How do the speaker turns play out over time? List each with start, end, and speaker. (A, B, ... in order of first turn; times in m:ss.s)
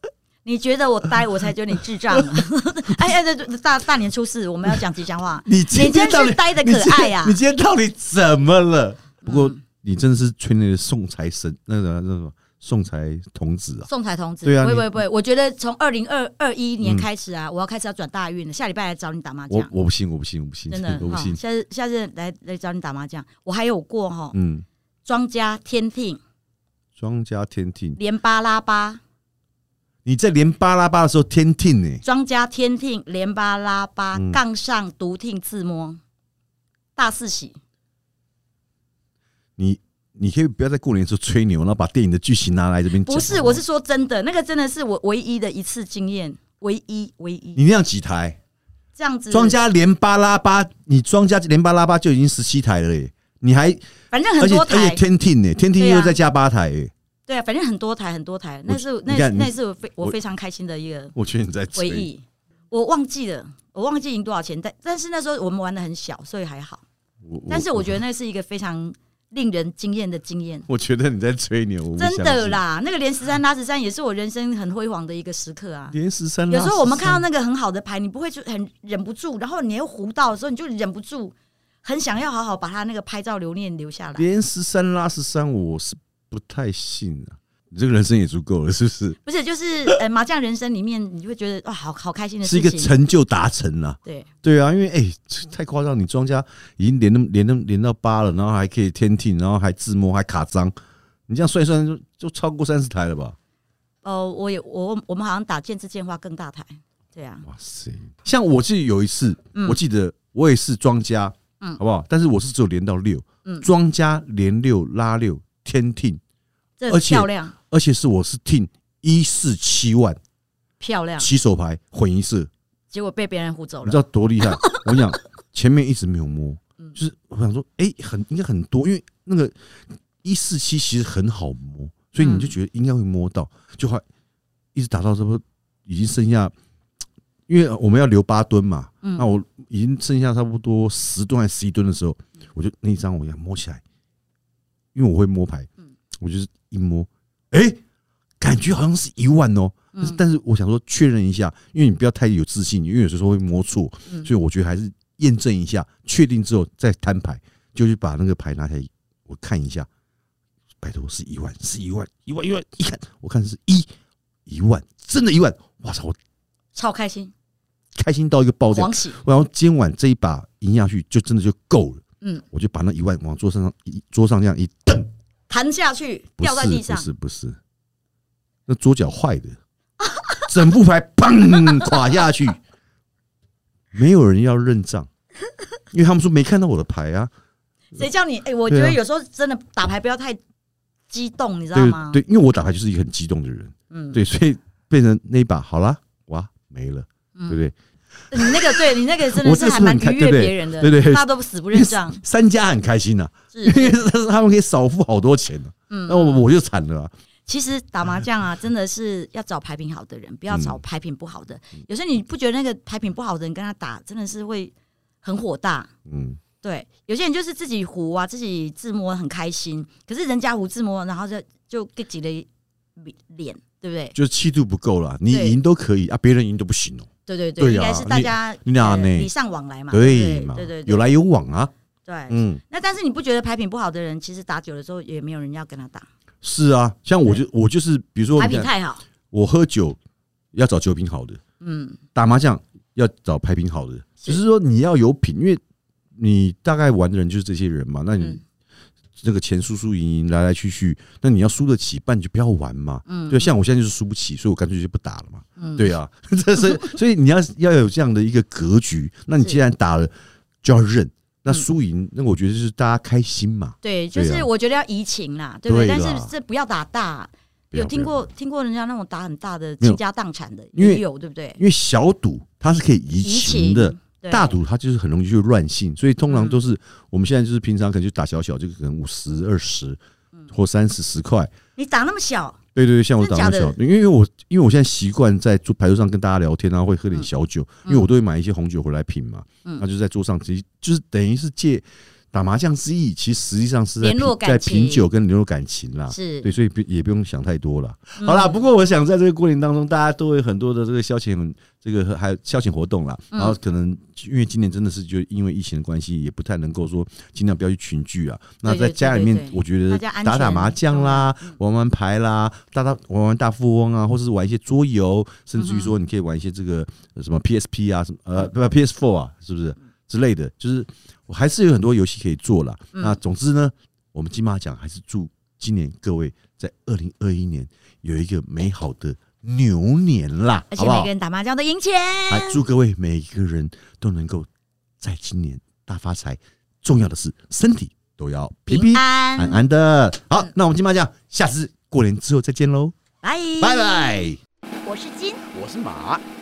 0:00.4-0:07.4 A
0:02.1-0:02.4 B
0:05.4-0:13.9 B
0:09.2-0:09.6 A
0:13.9-0:19.7 A
0:14.4-0:15.0 B
0:16.8-0:17.1 B
0:19.5-0:21.4 B
0:20.7-0:24.4 A
0:24.3-0:24.6 B
0:25.0-0:26.2 A
0:27.0-0:28.0 B
0:28.0-0:29.0 A
0:30.0-0:32.0 B
0:32.0-0:36.0 A
0:34.1-0:34.4 B
0:37.0-0:37.6 A
0:39.6-0:43.6 B
0:42.9-0:47.6 A
0:47.6-0:48.4 B
0:49.0-0:49.6 A
0:49.3-0:53.8 B
0:54.1-0:55.0 A
0:54.4-0:56.9 B
0:55.8-0:56.2 A
0:57.3-1:01.1 A
0:58.7-1:00.2 B
1:01.1-1:02.1 B
1:01.7-1:06.8 A
1:07.2-1:08.0 B
1:07.5-1:10.7 A
1:10.7-1:12.6 B
1:12.0-1:16.0 A
1:15.9-1:17.2 B
1:16.5-1:24.3 A
1:24.2-1:29.2 B
1:29.2-1:32.9 A
1:32.4-1:40.7 B
1:41.3-1:43.4 B
1:44.0-1:47.4 A
1:47.4-1:56.2 B
1:49.6-1:49.8 A
1:56.8-1:57.6 A
1:56.9-2:00.2 B
2:00.8-2:01.3 A
2:01.2-2:02.5 B
2:02.9-2:05.1 A
2:03.8-2:09.6 B
2:10.2-2:14.0 B
2:12.2-2:12.5 A
2:14.7-2:16.5 B
2:17.5-2:23.8 B
2:19.0-2:19.3 A
2:24.9-2:27.8 B
2:28.4-2:39.9 B
2:40.8-2:43.9 B
2:44.5-2:46.2 B
2:46.7-2:47.3 A
2:47.9-2:55.1 B
2:48.7-2:49.2 A
2:55.5-2:57.1 A
2:56.4-2:57.6 B
2:58.7-2:59.6 B
3:00.0-3:00.5 A
3:00.5-3:02.6 B
3:03.9-3:05.1 B
3:05.9-3:07.3 B
3:07.9-3:10.4 A
3:08.7-3:09.0 B
3:11.1-3:12.2 A
3:11.7-3:17.8 B
3:13.9-3:14.2 A
3:18.3-3:22.2 A
3:18.3-3:27.1 B
3:23.5-3:24.1 A
3:25.9-3:26.4 A
3:27.5-3:35.9 A
3:30.5-3:30.8 B
3:36.1-3:36.4 B
3:36.6-3:44.2 A
3:44.1-3:49.3 B
3:45.3-3:45.6 A
3:47.3-3:51.0 A
3:49.9-3:51.7 B
3:52.0-3:56.1 A
3:52.3-3:52.6 B
3:56.4-3:58.7 B
3:58.4-3:59.0 A
3:59.3-4:00.0 B
4:00.5-4:01.4 B
4:01.6-4:02.0 A
4:02.1-4:05.6 B
4:06.1-4:08.4 B
4:09.2-4:20.1 B
4:13.1-4:13.5 A
4:15.6-4:15.9 A
4:20.6-4:24.5 B
4:23.8-4:31.6 A
4:25.7-4:26.3 B
4:27.7-4:28.3 B
4:30.8-4:31.0 B
4:31.6-4:40.0 B
4:33.2-4:34.6 A
4:36.3-4:36.6 A
4:40.5-4:41.5 B
4:41.8-4:42.6 A
4:42.8-5:31.1 B
4:43.2-4:43.8 A
4:54.0-4:55.1 A
4:56.1-4:56.5 A
4:58.2-4:58.6 A
5:08.6-5:11.6 A
5:15.6-5:15.9 A
5:22.9-5:23.2 A
5:30.7-5:32.6 A
5:32.3-5:34.5 B
5:35.0-5:42.9 B
5:38.7-5:39.6 A
5:43.2-5:44.1 A
5:43.6-5:44.4 B
5:44.8-5:45.4 A
5:45.5-5:46.2 B